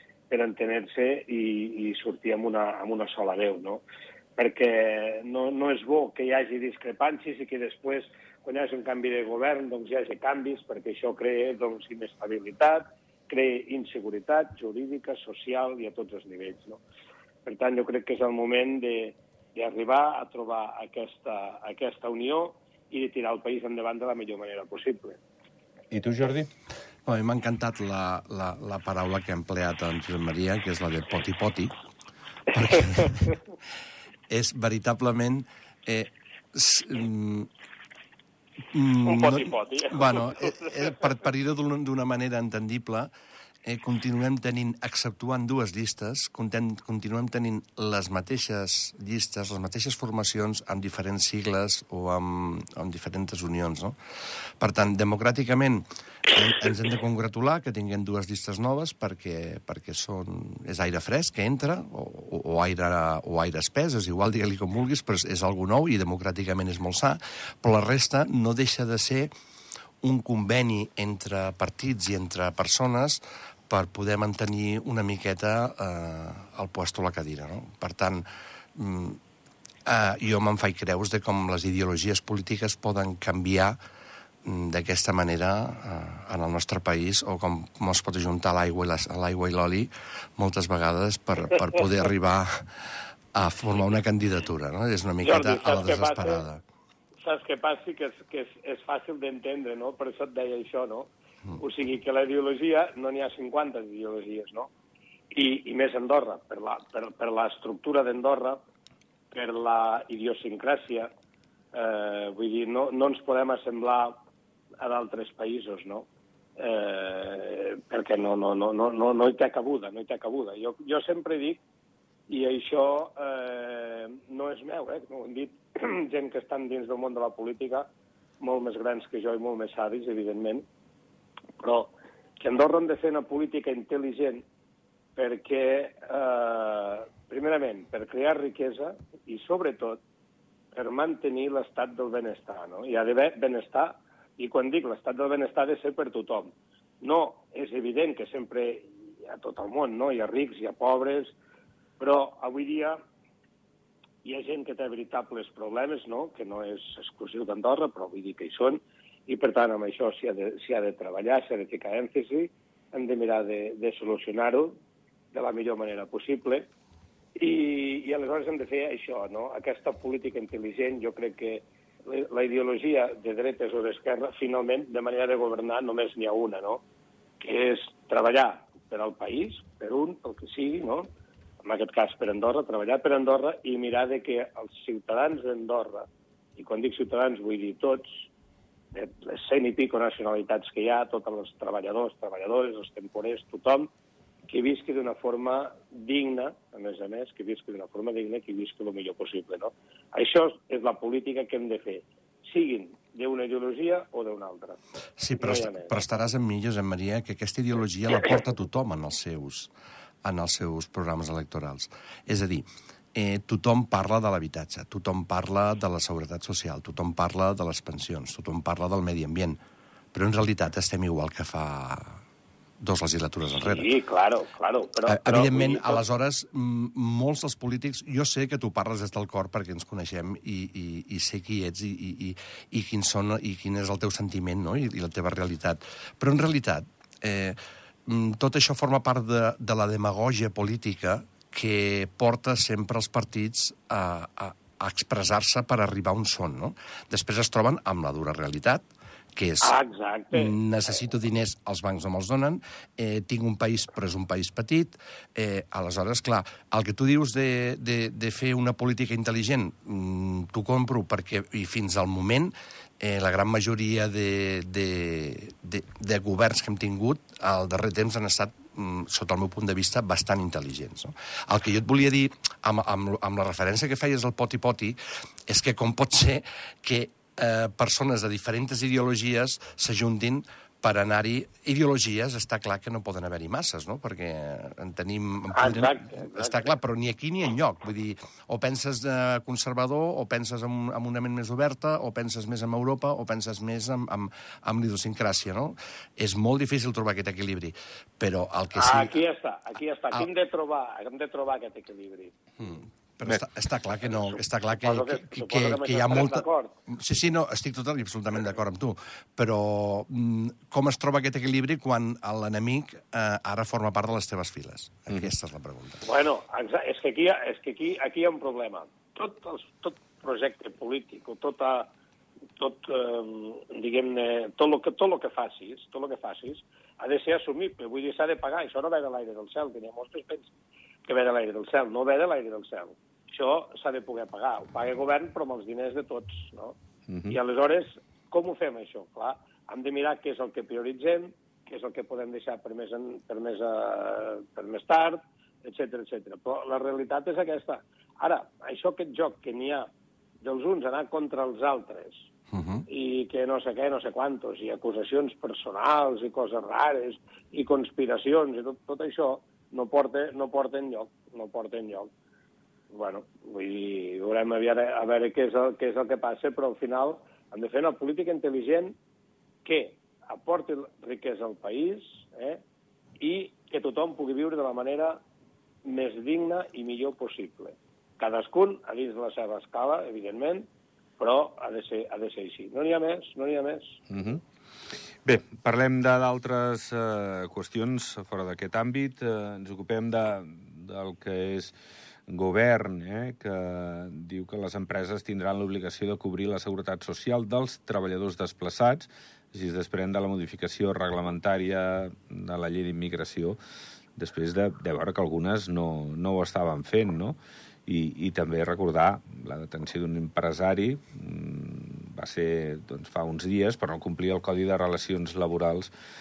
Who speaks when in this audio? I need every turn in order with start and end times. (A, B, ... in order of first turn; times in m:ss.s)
0:00.3-0:03.8 A
0:04.4-0:16.8 A
0:17.4-0:25.2 A
0:25.9-0:26.5 B
0:27.0-0:31.7 C
0:32.5-0:33.4 C
0:34.3-0:37.5 C
0:38.7-0:43.1 C
0:39.0-0:41.0 A
0:43.6-0:54.0 C
0:54.6-1:09.3 C
1:10.0-1:19.2 C
1:19.8-1:23.8 C
1:24.4-1:36.6 C
1:35.2-1:36.4 A
1:37.2-1:44.7 A
1:45.3-1:48.6 A
1:49.3-1:51.1 A
1:51.7-1:54.2 A
1:54.8-2:01.6 A
2:02.3-2:07.9 A
2:08.4-2:10.6 A
2:11.6-2:14.4 A
2:15.2-2:20.0 A
2:20.7-2:31.3 A
2:32.0-2:33.0 A
2:34.2-2:44.8 A
2:45.3-2:46.7 A
2:47.4-2:56.8 A
2:57.4-3:01.1 A
3:01.6-3:08.3 A
3:08.9-3:13.9 A
3:14.5-3:24.8 A
3:25.2-3:29.7 C
3:25.4-3:25.9 A
3:30.2-3:39.6 C
3:40.1-3:42.2 C
3:42.8-3:43.9 C
3:43.6-3:46.0 A
3:45.0-4:09.7 C
4:09.6-4:10.6 A
4:10.3-4:59.2 C
4:45.5-4:46.7 A
4:58.7-5:02.3 A
5:02.6-5:16.0 C
5:04.8-5:06.7 A
5:16.0-5:21.9 A
5:22.6-5:30.5 A
5:31.0-5:36.8 A
5:37.1-5:37.4 B
5:37.3-5:49.9 A
5:50.4-5:52.3 A
5:52.5-5:52.8 C
5:52.9-6:02.1 A
6:02.9-6:09.0 A
6:09.6-6:12.6 A
6:13.2-6:15.2 A
6:15.8-6:20.7 A
6:21.2-6:24.0 A
6:24.1-6:31.7 B
6:32.3-6:43.6 B
6:44.2-6:55.9 B